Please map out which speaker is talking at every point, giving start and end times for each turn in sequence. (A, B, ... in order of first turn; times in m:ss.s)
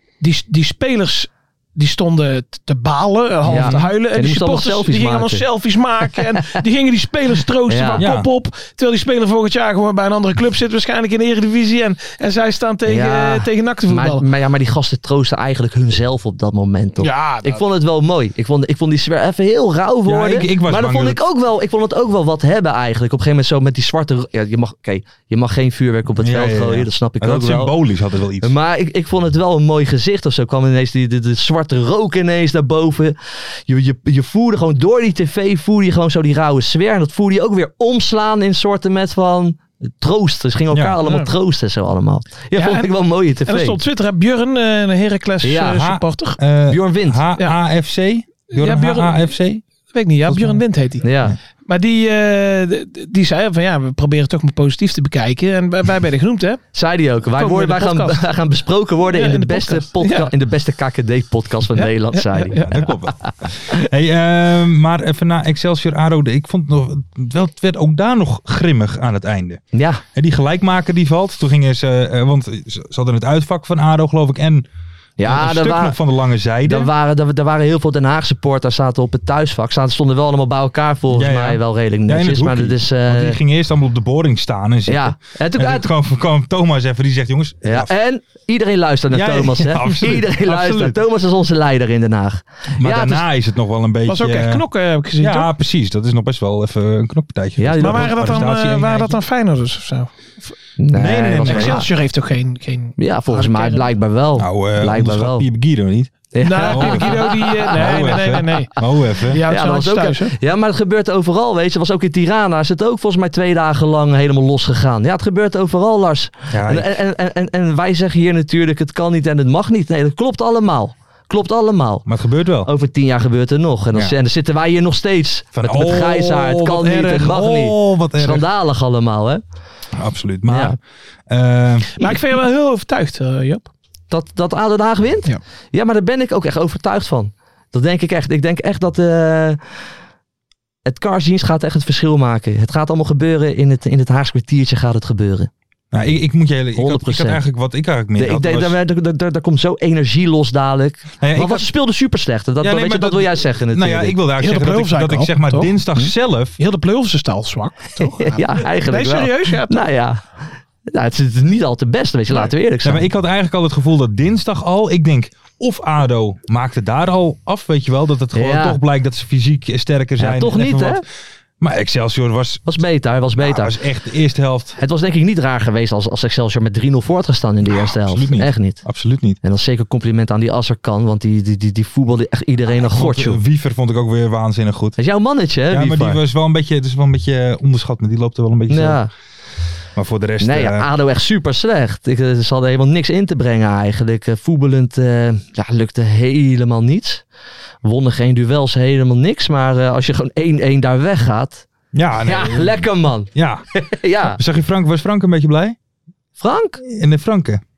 0:00.2-0:14.2 A
0:03.5-0:03.9 B
0:03.5-0:05.5 C
0:07.7-0:08.1 C
0:08.0-0:08.3 B
0:12.9-0:27.7 C
0:17.0-0:17.6 A
0:20.0-0:21.2 B
0:26.2-0:28.5 B
0:28.4-0:33.2 C
0:33.7-0:43.8 C
0:40.7-0:41.0 B
0:41.0-0:41.3 A
0:42.5-0:42.9 A
0:43.5-0:46.4 A
0:45.4-0:45.8 C
0:45.8-0:49.6 B
0:46.7-0:47.2 C
0:48.5-0:49.3 A
0:49.9-0:51.0 A
0:50.3-0:50.6 B
0:51.0-0:51.4 C
0:51.6-0:56.6 A
0:56.7-1:02.7 C
0:57.4-0:58.2 A
0:59.1-1:00.3 A
1:01.8-1:02.8 A
1:02.6-1:09.6 B
1:09.7-1:10.0 C
1:10.1-1:14.7 B
1:15.2-1:16.0 C
1:15.2-1:16.9 B
1:16.6-1:23.4 C
1:21.1-1:27.9 B
1:24.9-1:25.9 C
1:27.6-1:33.2 C
1:29.1-1:31.0 B
1:32.8-1:34.7 B
1:34.1-1:35.5 A
1:35.2-1:39.2 B
1:37.6-1:38.2 C
1:37.8-1:40.1 A
1:40.8-1:41.9 C
1:40.9-1:41.9 B
1:41.4-1:43.9 A
1:43.0-1:45.5 C
1:44.4-1:49.4 B
1:46.3-1:48.6 C
1:46.4-1:50.4 A
1:49.5-2:02.1 C
1:56.5-1:56.9 B
2:02.1-2:02.7 B
2:02.6-2:09.4 C
2:05.5-2:08.4 B
2:10.0-2:12.0 B
2:10.5-2:10.8 C
2:12.0-2:13.7 A
2:14.1-2:19.6 C
2:20.8-2:25.5 C
2:25.9-2:28.8 B
2:26.8-2:27.4 C
2:28.2-2:34.2 C
2:31.2-2:31.7 B
2:32.6-2:36.6 B
2:34.4-2:35.7 A
2:36.6-2:39.9 A
2:38.1-2:43.1 C
2:42.8-2:51.0 B
2:48.3-2:48.8 C
2:50.2-2:51.0 C
2:51.6-2:52.8 B
2:52.7-2:53.7 C
2:53.4-2:54.8 B
2:54.8-2:58.8 C
2:57.7-2:59.4 B
2:59.4-3:03.4 C
3:02.7-3:05.0 B
3:05.0-3:06.2 C
3:05.7-3:09.0 B
3:08.7-3:09.1 C
3:10.0-3:10.9 B
3:10.4-3:17.2 C
3:17.8-3:21.7 C
3:21.9-3:23.6 B
3:22.3-3:24.4 C
3:24.3-3:25.8 B
3:26.4-3:26.8 C
3:26.8-3:27.6 B